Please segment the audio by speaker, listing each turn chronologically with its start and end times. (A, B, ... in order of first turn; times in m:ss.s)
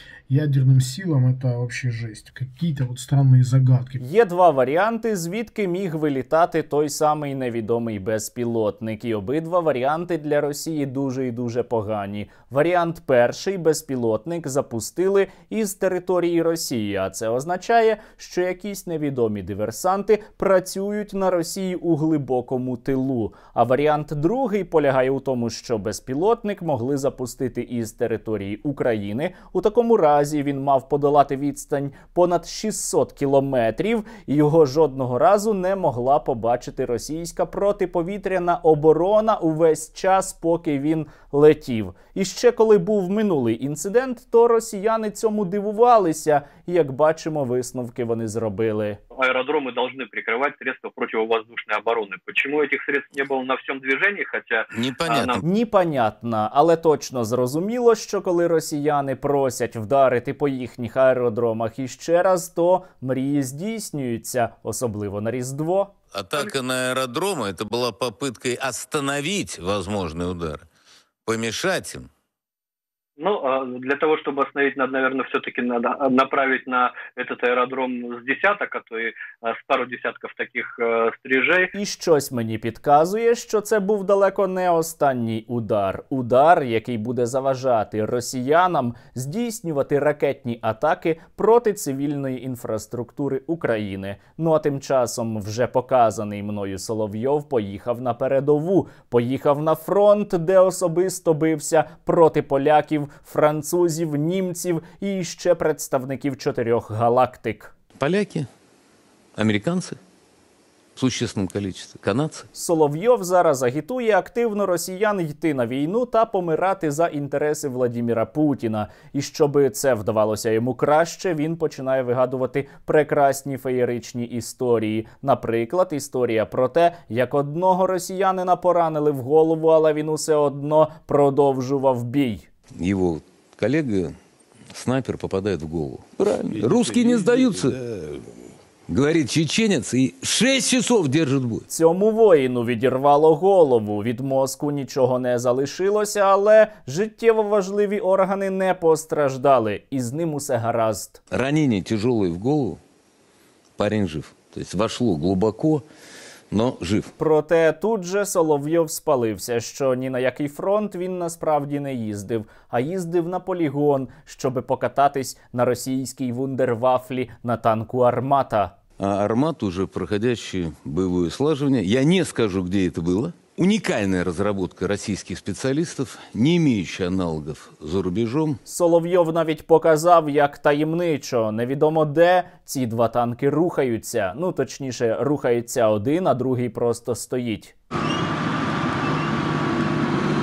0:00.3-0:04.0 A
0:04.0-0:49.0 B
0:49.1-0:55.4 C
0:54.7-0:55.4 D
0:55.4-1:05.9 B
1:06.1-1:10.6 D
1:11.3-1:12.1 D
1:13.2-1:21.7 C
1:21.8-1:47.7 B
1:48.0-1:48.5 D
1:49.4-1:50.0 D
1:51.0-1:52.5 D
1:52.5-2:12.5 B
2:12.8-2:14.2 D
2:14.7-2:17.8 D
2:18.9-2:21.6 D
2:21.7-2:31.2 B
2:31.3-2:32.8 D
2:33.8-2:35.8 D
2:36.5-2:37.1 D
2:37.2-2:48.8 B
2:49.0-2:58.6 D
2:58.7-3:07.8 B